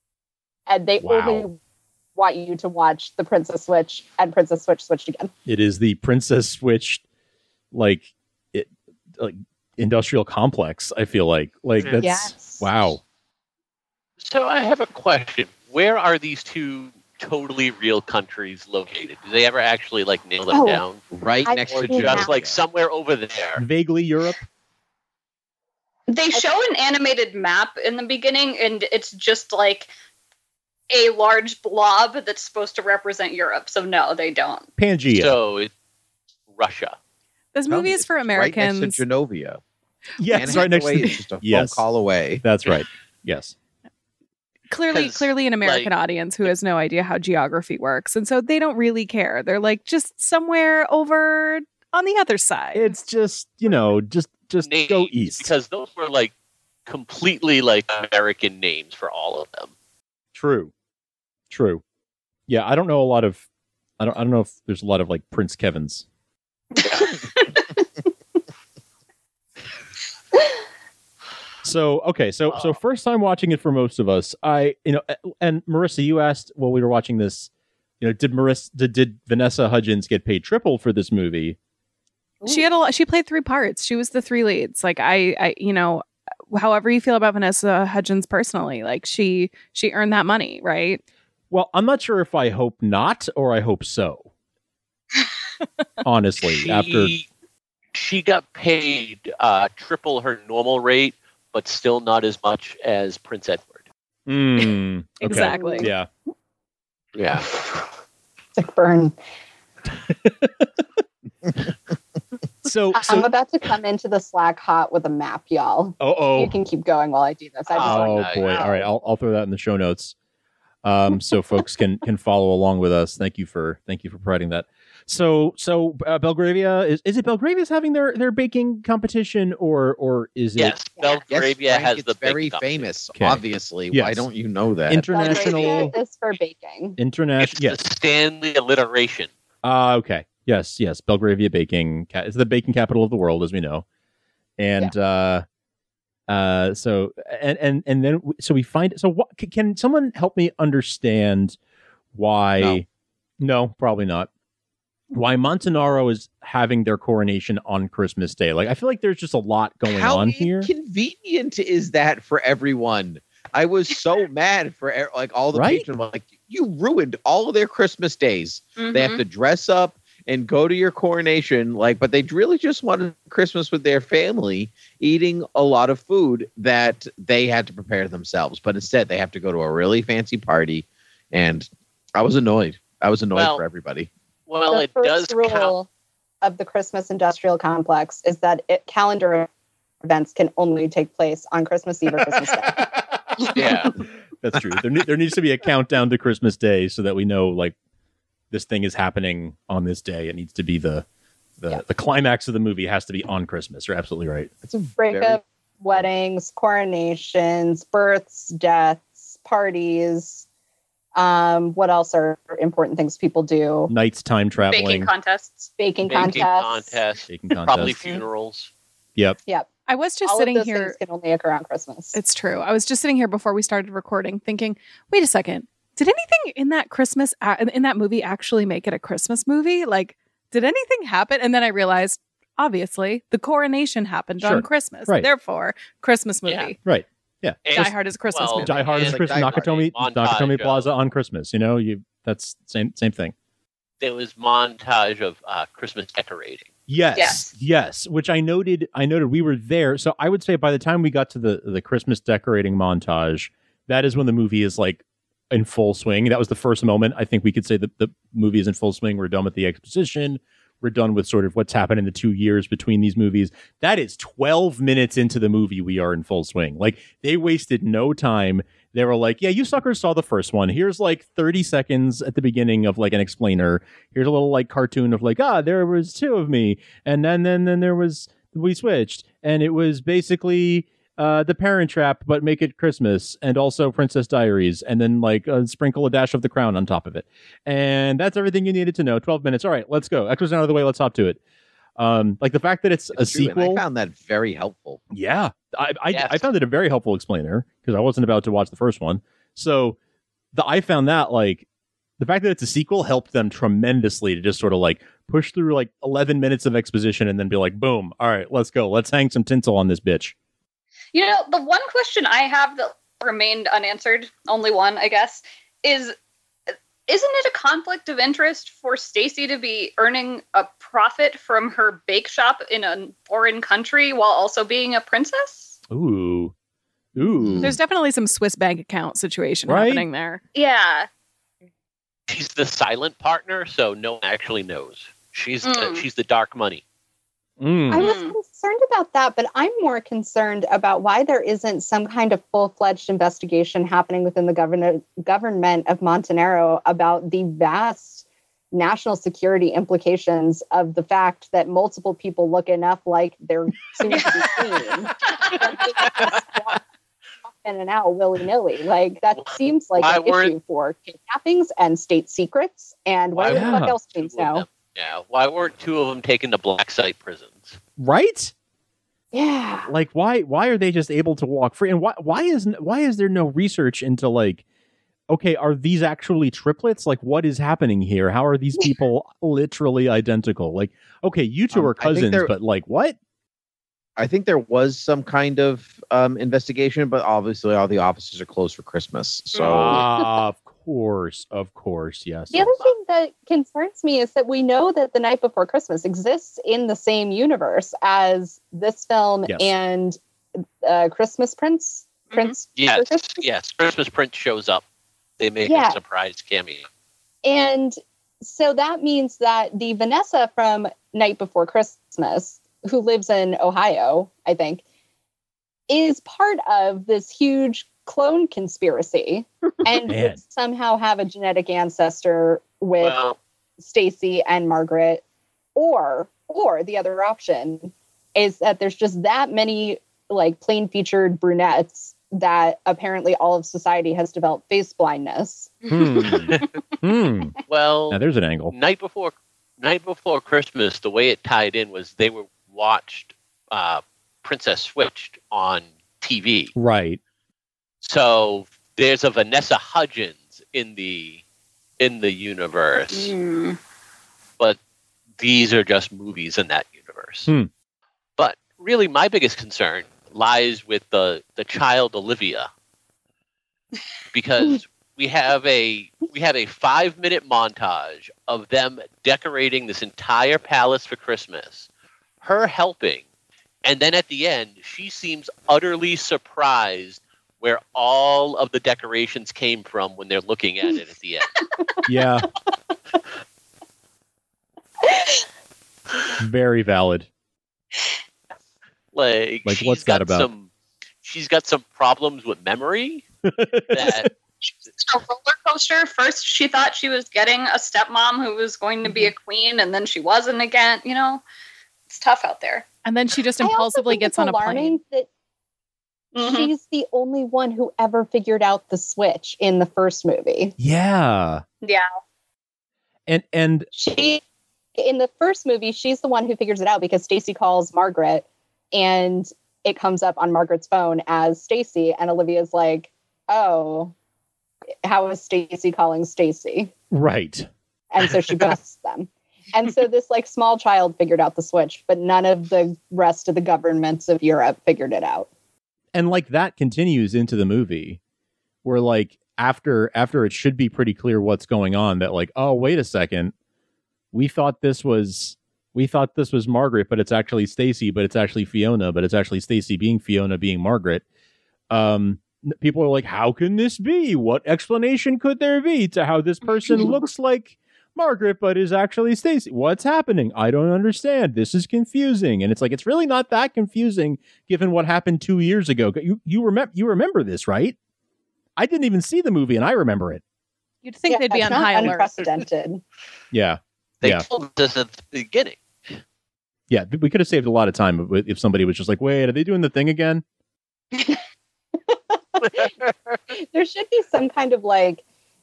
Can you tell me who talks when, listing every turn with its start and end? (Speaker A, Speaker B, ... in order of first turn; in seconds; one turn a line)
Speaker A: 0.7-1.6
Speaker B: 1.0-1.5
Speaker A: 2.2-5.3
Speaker B: 5.5-7.0
Speaker B: 7.7-13.0
Speaker A: 12.0-12.7
Speaker C: 14.2-21.1
Speaker A: 20.5-20.8
Speaker D: 21.1-22.6
Speaker A: 21.4-22.4
Speaker C: 21.7-23.6
Speaker B: 23.6-24.4
Speaker E: 26.1-29.9
Speaker E: 30.9-34.7
Speaker B: 34.8-35.4
Speaker C: 35.1-35.7
Speaker C: 36.5-37.0
Speaker F: 37.5-39.0
Speaker D: 37.7-39.6
Speaker B: 40.2-41.8
Speaker D: 40.3-42.4
Speaker B: 42.4-43.5
Speaker F: 44.7-53.0
Speaker C: 44.9-45.9
Speaker B: 52.7-55.5
Speaker C: 54.6-56.3
Speaker C: 56.9-59.7
Speaker B: 60.3-60.7
Speaker B: 61.5-61.8
Speaker B: 62.5-63.4
Speaker B: 64.0-66.0
Speaker B: 71.6-77.5
Speaker B: 78.0-81.6
Speaker F: 82.5-91.0
Speaker B: 91.5-94.3
Speaker B: 96.0-97.1
Speaker C: 96.4-97.3
Speaker C: 97.9-103.9
Speaker B: 104.3-106.1
Speaker F: 105.2-105.9
Speaker A: 105.3-105.9
Speaker C: 107.2-107.5
Speaker A: 108.6-109.2
Speaker B: 110.1-110.7
Speaker B: 112.6-113.3
Speaker A: 112.9-118.9
Speaker B: 116.0-116.6
Speaker C: 117.7-118.6
Speaker B: 117.8-120.2
Speaker B: 120.8-130.8
Speaker C: 130.6-132.9
Speaker D: 131.3-135.1
Speaker B: 133.2-134.3
Speaker B: 134.9-135.9
Speaker A: 135.1-137.0
Speaker B: 137.0-137.8
Speaker C: 137.4-139.3
Speaker B: 139.6-143.8
Speaker B: 144.6-145.4
Speaker B: 146.3-151.6
Speaker B: 152.1-152.9
Speaker B: 153.4-154.3
Speaker B: 155.1-160.7
Speaker D: 159.9-184.1
Speaker B: 165.5-165.9
Speaker E: 168.8-169.2
Speaker C: 183.3-183.6
Speaker C: 184.5-185.8
Speaker A: 184.7-185.9
Speaker A: 186.4-189.5
Speaker A: 190.0-192.8
Speaker C: 193.5-193.9
Speaker B: 194.4-197.8
Speaker B: 198.5-201.1
Speaker B: 201.6-204.5
Speaker D: 204.7-205.4
Speaker A: 205.0-210.5
Speaker A: 211.2-213.9
Speaker B: 213.9-215.1
Speaker E: 214.6-215.7
Speaker A: 215.8-217.0
Speaker C: 216.1-218.7
Speaker B: 217.3-218.0
Speaker F: 219.9-221.0
Speaker A: 220.2-222.2
Speaker F: 222.1-236.8
Speaker B: 234.4-235.3
Speaker B: 236.8-237.9
Speaker C: 237.7-240.9
Speaker F: 237.7-238.7
Speaker D: 238.6-239.8
Speaker B: 238.6-243.3
Speaker C: 244.0-246.7
Speaker B: 246.9-291.4
Speaker E: 247.2-247.5
Speaker B: 292.0-293.8
Speaker D: 293.1-295.0
Speaker B: 295.1-300.0
Speaker C: 296.1-296.5
Speaker B: 300.5-301.6
Speaker B: 302.2-310.4
Speaker E: 311.1-316.2
Speaker E: 317.1-325.8
Speaker B: 325.9-326.5
Speaker B: 327.1-327.8
Speaker D: 327.4-327.7
Speaker F: 327.6-330.4
Speaker B: 329.7-330.1
Speaker E: 330.5-331.1
Speaker C: 332.3-336.8
Speaker E: 335.6-336.1
Speaker B: 337.6-338.1
Speaker A: 337.9-356.8
Speaker E: 338.0-338.4
Speaker E: 354.1-354.8
Speaker A: 357.6-364.6
Speaker C: 359.4-360.5
Speaker C: 363.4-367.8
Speaker B: 363.4-364.0
Speaker B: 368.0-368.5
Speaker A: 369.3-369.9
Speaker B: 369.9-374.6
Speaker B: 375.3-383.2
Speaker D: 381.7-382.5
Speaker D: 384.2-390.1
Speaker E: 389.6-390.0
Speaker B: 389.6-392.8
Speaker A: 392.5-400.2
Speaker B: 399.5-399.7
Speaker A: 400.8-403.4
Speaker C: 402.8-404.8
Speaker C: 405.4-406.9
Speaker A: 405.7-406.0
Speaker A: 407.4-414.8
Speaker A: 415.9-423.2
Speaker B: 420.1-420.4
Speaker C: 423.0-423.4
Speaker A: 423.8-425.2
Speaker A: 425.8-435.7
Speaker E: 435.9-436.7
Speaker B: 435.9-437.6
Speaker C: 437.7-446.7
Speaker B: 438.1-438.7
Speaker B: 446.8-447.2
Speaker C: 448.0-451.4
Speaker C: 452.0-453.3
Speaker E: 453.1-453.8
Speaker C: 455.4-457.5
Speaker C: 458.4-462.7
Speaker C: 464.3-471.9
Speaker C: 472.4-473.2
Speaker C: 473.8-481.6
Speaker B: 482.1-482.5
Speaker B: 486.4-487.3
Speaker C: 489.1-490.7
Speaker B: 489.6-490.5
Speaker C: 491.2-493.2
Speaker B: 493.5-494.3
Speaker C: 493.9-494.3
Speaker E: 495.0-501.4
Speaker E: 502.1-502.9
Speaker F: 503.1-505.0
Speaker A: 503.6-505.3
Speaker E: 506.4-506.7
Speaker A: 506.4-510.8
Speaker B: 510.8-511.6
Speaker B: 513.3-513.9
Speaker A: 513.9-514.4
Speaker A: 515.0-524.1
Speaker A: 525.0-526.9
Speaker B: 527.1-527.7
Speaker A: 528.1-535.5
Speaker B: 536.1-538.2
Speaker B: 538.8-543.5
Speaker B: 544.3-551.2
Speaker B: 551.9-568.0
Speaker B: 568.8-570.4
Speaker F: 571.0-572.4
Speaker A: 571.3-573.0
Speaker B: 573.5-574.5
Speaker C: 574.2-576.1
Speaker B: 576.9-580.4
Speaker A: 582.5-582.9
Speaker A: 583.5-585.2